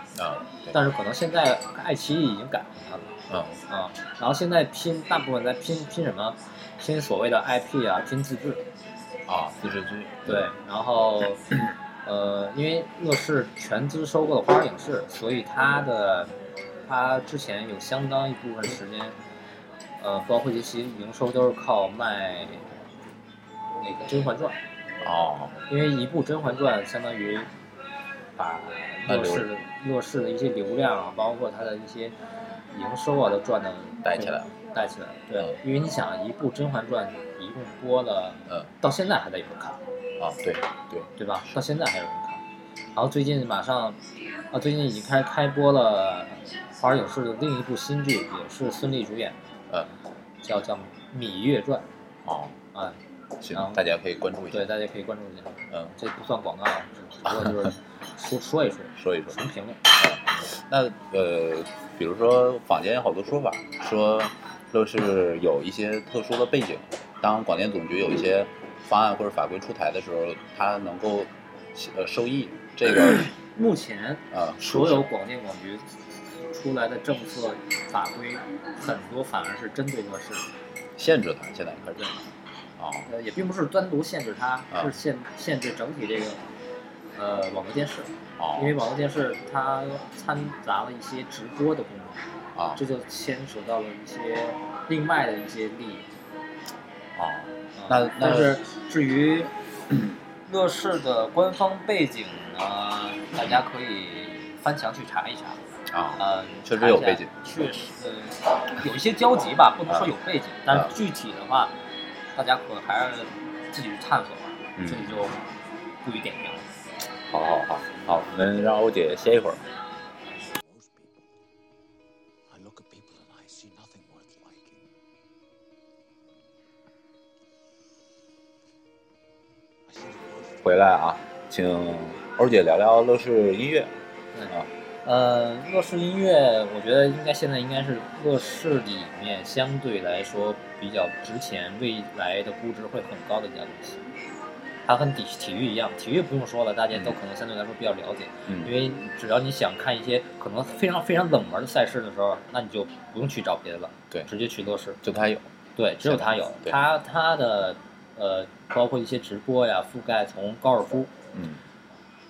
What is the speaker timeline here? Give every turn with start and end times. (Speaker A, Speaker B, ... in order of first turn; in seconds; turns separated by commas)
Speaker A: 0.1-0.8, Speaker B: 0.7-3.1, Speaker A: 3.3-3.6, Speaker B: 3.7-8.6, Speaker A: 9.3-10.5, Speaker B: 10.2-11.5, Speaker B: 12.0-16.3, Speaker B: 16.9-19.1, Speaker B: 20.0-22.7, Speaker B: 23.8-24.6, Speaker A: 25.0-25.6, Speaker B: 25.7-27.5, Speaker B: 28.4-32.1, Speaker A: 29.1-29.5, Speaker B: 32.7-39.8, Speaker A: 34.0-34.5, Speaker A: 40.2-41.1, Speaker B: 41.2-42.4, Speaker B: 42.9-49.4, Speaker B: 50.4-51.9, Speaker A: 52.2-52.5, Speaker A: 53.4-54.7, Speaker B: 53.5-53.8, Speaker B: 54.5-60.5, Speaker A: 57.3-57.6, Speaker A: 59.0-59.4, Speaker A: 59.9-73.3, Speaker B: 73.2-80.5, Speaker A: 74.3-75.0, Speaker A: 81.0-82.2, Speaker A: 82.8-83.1, Speaker B: 83.0-86.4, Speaker B: 87.1-92.2, Speaker A: 88.4-88.8, Speaker A: 92.5-92.8, Speaker B: 92.7-96.1, Speaker A: 97.2-98.6, Speaker B: 97.8-99.5, Speaker B: 100.5-105.6, Speaker A: 105.9-107.3, Speaker B: 106.2-111.7, Speaker B: 112.3-115.4, Speaker A: 114.8-115.2, Speaker B: 116.0-116.7, Speaker A: 117.3-119.7, Speaker C: 120.5-121.3, Speaker C: 122.5-124.8, Speaker C: 129.9-130.7, Speaker A: 130.6-133.9, Speaker B: 134.3-144.0, Speaker B: 144.8-155.0, Speaker A: 148.5-148.7, Speaker A: 155.0-155.5, Speaker B: 155.8-161.1, Speaker A: 156.0-156.8, Speaker A: 161.3-161.6